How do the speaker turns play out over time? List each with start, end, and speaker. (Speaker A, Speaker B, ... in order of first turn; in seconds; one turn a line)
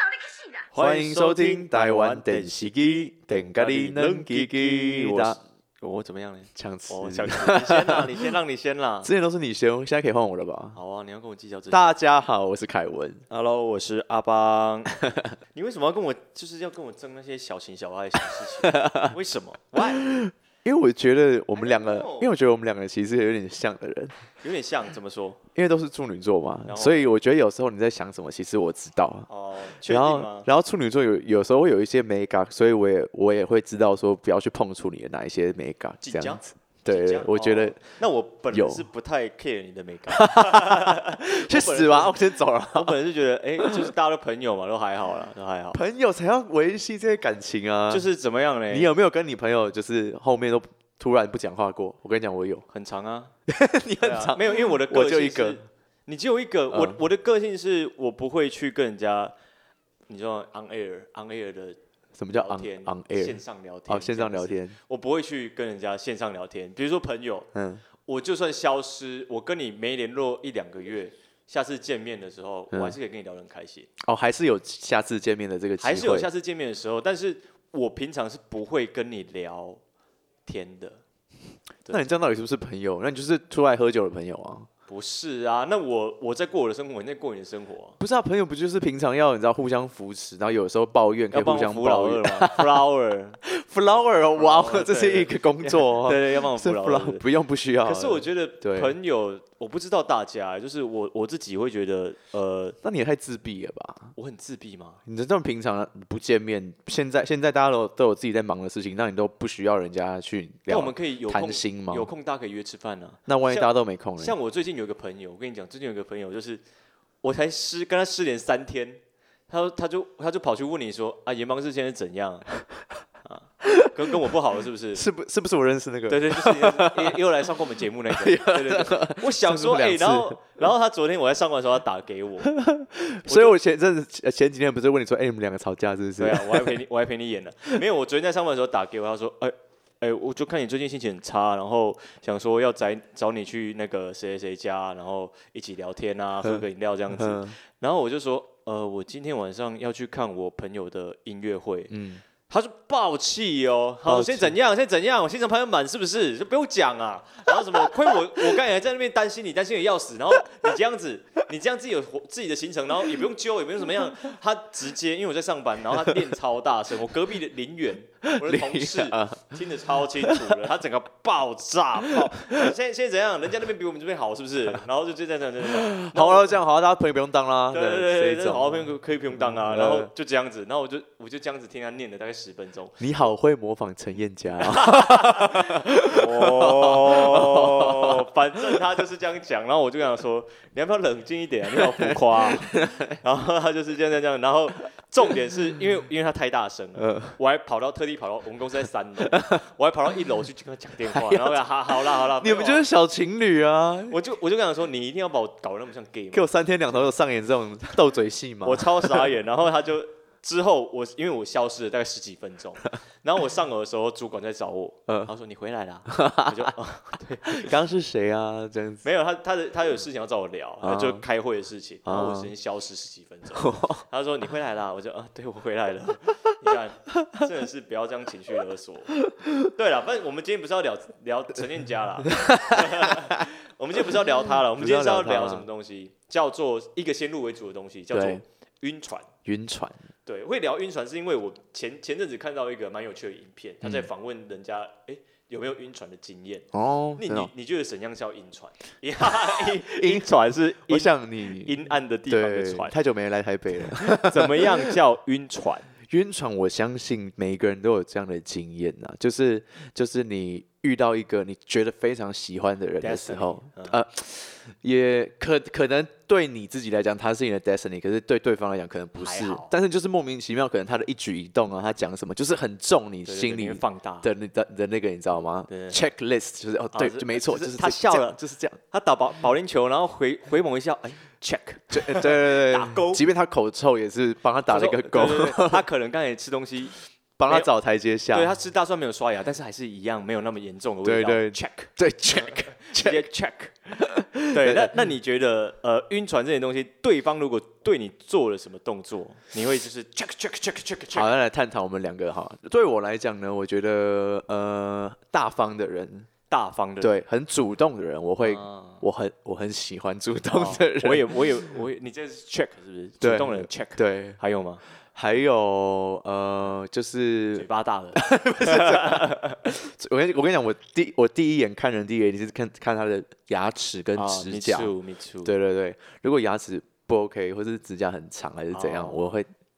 Speaker A: 0.7-9.1
Speaker B: 0.8-5.4
Speaker B: 6.6-8.3
Speaker B: 9.0-10.8
Speaker A: 10.7-12.0
Speaker B: 11.7-13.2
Speaker A: 13.3-15.0
Speaker A: 15.5-20.1
Speaker B: 18.6-19.1
Speaker B: 19.8-24.2
Speaker A: 21.5-22.3
Speaker A: 24.4-25.4
Speaker B: 25.5-29.3
Speaker A: 26.7-27.0
Speaker A: 29.3-30.5
Speaker B: 29.8-37.8
Speaker A: 36.0-45.8
Speaker B: 38.5-38.9
Speaker B: 40.1-43.0
Speaker B: 43.6-43.9
Speaker B: 45.7-48.1
Speaker A: 47.9-48.9
Speaker B: 48.7-52.6
Speaker A: 52.7-53.3
Speaker B: 53.5-55.6
Speaker A: 54.0-59.3
Speaker B: 56.7-57.0
Speaker A: 60.1-61.8
Speaker B: 62.1-64.8
Speaker A: 62.3-67.5
Speaker B: 67.5-67.8
Speaker A: 68.1-73.9
Speaker B: 72.7-73.0
Speaker B: 74.0-76.3
Speaker A: 75.8-79.8
Speaker A: 80.5-81.0
Speaker B: 81.9-84.7
Speaker A: 84.9-88.0
Speaker B: 88.0-92.8
Speaker A: 91.3-93.4
Speaker B: 93.4-98.9
Speaker A: 94.4-97.2
Speaker A: 97.8-102.8
Speaker B: 102.8-104.1
Speaker A: 104.2-105.0
Speaker B: 105.1-112.1
Speaker A: 110.7-116.6
Speaker B: 113.3-114.4
Speaker A: 117.2-122.6
Speaker A: 123.2-125.0
Speaker B: 123.6-123.9
Speaker B: 125.0-127.2
Speaker A: 126.1-132.5
Speaker B: 128.1-130.5
Speaker B: 132.5-136.8
Speaker A: 133.2-133.5
Speaker A: 136.2-176.6
Speaker B: 147.2-147.6
Speaker B: 151.9-152.2
Speaker B: 154.1-154.5
Speaker B: 168.3-169.6
Speaker B: 170.2-170.5
Speaker B: 175.6-180.1
Speaker A: 177.7-183.0
Speaker B: 183.0-188.3
Speaker A: 184.6-202.8
Speaker B: 191.8-193.2
Speaker B: 197.0-197.3
Speaker B: 199.3-199.6
Speaker B: 201.1-204.2
Speaker A: 204.1-207.1
Speaker B: 206.3-209.3
Speaker A: 208.6-217.7
Speaker B: 216.1-216.7
Speaker B: 217.4-219.0
Speaker A: 219.0-239.3
Speaker B: 220.8-221.2
Speaker B: 222.1-222.5
Speaker B: 223.6-224.0
Speaker B: 232.3-233.4
Speaker B: 234.8-235.7
Speaker B: 238.1-238.4
Speaker B: 239.4-240.0
Speaker A: 240.2-252.9
Speaker B: 246.7-247.5
Speaker B: 249.4-250.3
Speaker B: 250.9-251.7
Speaker B: 252.3-254.9
Speaker A: 253.8-255.9
Speaker B: 256.0-278.8
Speaker A: 263.0-264.0
Speaker A: 269.2-269.7
Speaker A: 273.2-274.3
Speaker A: 275.7-276.0
Speaker A: 276.9-278.4
Speaker A: 278.9-283.2
Speaker B: 281.9-285.8
Speaker A: 284.7-286.9
Speaker B: 287.4-288.5
Speaker A: 288.3-301.3
Speaker B: 291.1-293.3
Speaker B: 294.0-294.9
Speaker B: 301.1-306.3
Speaker A: 306.5-307.1
Speaker B: 307.0-311.6
Speaker A: 308.4-309.0
Speaker A: 310.5-314.8
Speaker B: 313.2-314.4
Speaker B: 315.1-324.9
Speaker A: 317.6-319.6
Speaker A: 324.1-325.5
Speaker B: 325.4-329.5
Speaker A: 328.7-329.3